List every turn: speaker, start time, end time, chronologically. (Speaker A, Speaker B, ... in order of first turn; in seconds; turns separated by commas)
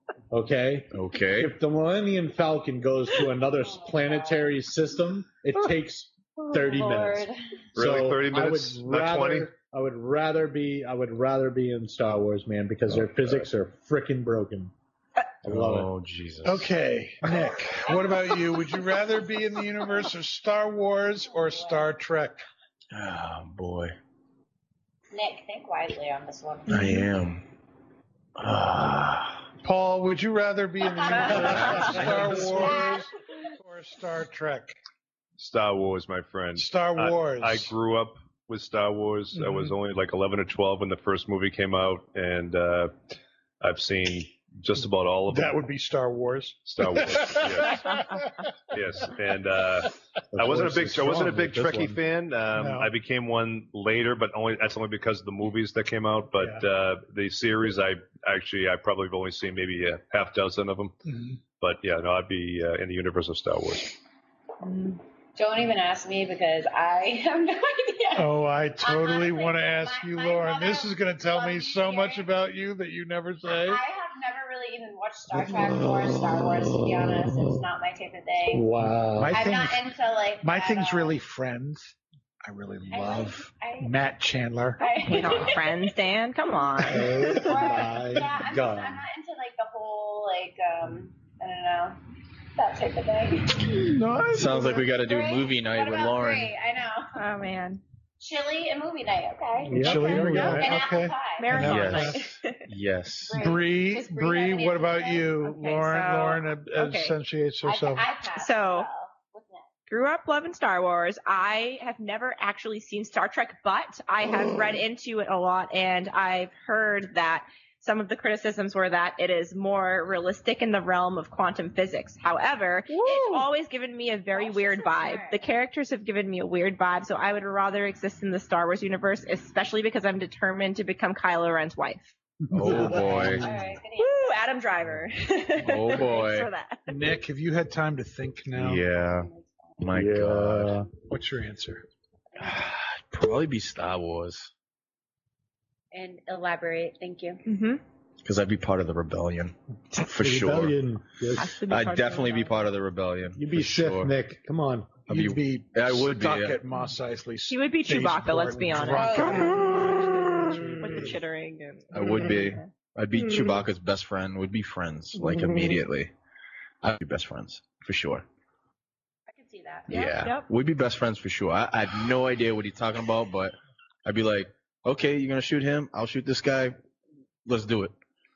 Speaker A: 0.3-14.7, Speaker B: 0.9-1.6, Speaker C: 3.6-4.6, Speaker C: 6.5-7.4, Speaker D: 7.8-9.5, Speaker B: 13.1-13.5, Speaker A: 15.4-15.9, Speaker B: 15.4-16.7, Speaker E: 16.4-22.5, Speaker C: 17.8-18.4, Speaker C: 21.3-21.9, Speaker B: 22.9-24.0, Speaker C: 25.1-27.0, Speaker B: 26.7-27.4, Speaker B: 28.4-29.4, Speaker E: 29.6-34.8, Speaker C: 31.0-31.8, Speaker B: 31.5-32.7, Speaker C: 32.5-33.1, Speaker D: 35.4-42.9, Speaker E: 36.5-37.7, Speaker E: 39.4-39.7, Speaker D: 43.6-45.6, Speaker E: 45.3-48.2, Speaker D: 46.7-48.0, Speaker D: 48.7-61.0, Speaker A: 50.3-52.0, Speaker E: 52.5-52.9, Speaker E: 56.4-56.6, Speaker E: 61.0-61.4, Speaker D: 61.6-64.0, Speaker C: 64.6-72.3, Speaker E: 68.1-73.8, Speaker C: 73.5-78.7, Speaker A: 75.3-77.5, Speaker A: 78.5-79.4, Speaker E: 79.2-79.9, Speaker C: 79.3-81.2, Speaker E: 80.4-84.8, Speaker C: 82.9-84.0, Speaker C: 84.8-85.7, Speaker F: 85.0-87.5, Speaker A: 86.9-89.0, Speaker C: 87.1-92.0, Speaker C: 92.6-93.9, Speaker E: 93.7-94.8, Speaker B: 94.3-96.5, Speaker C: 94.8-97.2, Speaker F: 97.1-97.8, Speaker C: 98.2-101.5, Speaker A: 99.7-100.8, Speaker E: 99.7-102.3, Speaker F: 99.8-100.6, Speaker F: 101.4-102.6, Speaker B: 101.5-103.4, Speaker C: 103.3-105.4, Speaker E: 103.3-108.1, Speaker F: 105.4-107.2, Speaker C: 107.6-109.7, Speaker F: 108.3-108.9, Speaker F: 109.9-132.2, Speaker C: 124.3-125.5, Speaker B: 132.5-133.4, Speaker A: 132.5-133.5, Speaker E: 132.6-133.6, Speaker C: 133.1-134.4, Speaker F: 134.0-136.9, Speaker B: 135.6-136.5, Speaker E: 136.9-138.8, Speaker B: 138.6-140.8, Speaker C: 139.2-139.8, Speaker A: 139.9-140.9, Speaker E: 141.0-141.9, Speaker B: 142.4-144.5, Speaker C: 145.9-147.4, Speaker F: 147.5-147.8, Speaker B: 148.2-150.8, Speaker A: 150.1-151.6, Speaker F: 151.3-152.6, Speaker B: 151.7-154.2, Speaker A: 153.4-155.1, Speaker E: 155.1-161.2, Speaker B: 155.1-156.6, Speaker F: 157.5-163.6, Speaker C: 158.9-159.7, Speaker A: 160.5-161.1, Speaker B: 161.9-166.1, Speaker B: 166.8-168.2, Speaker C: 169.3-170.0, Speaker F: 169.9-170.5, Speaker B: 169.9-173.5, Speaker B: 174.1-176.8, Speaker B: 177.4-177.9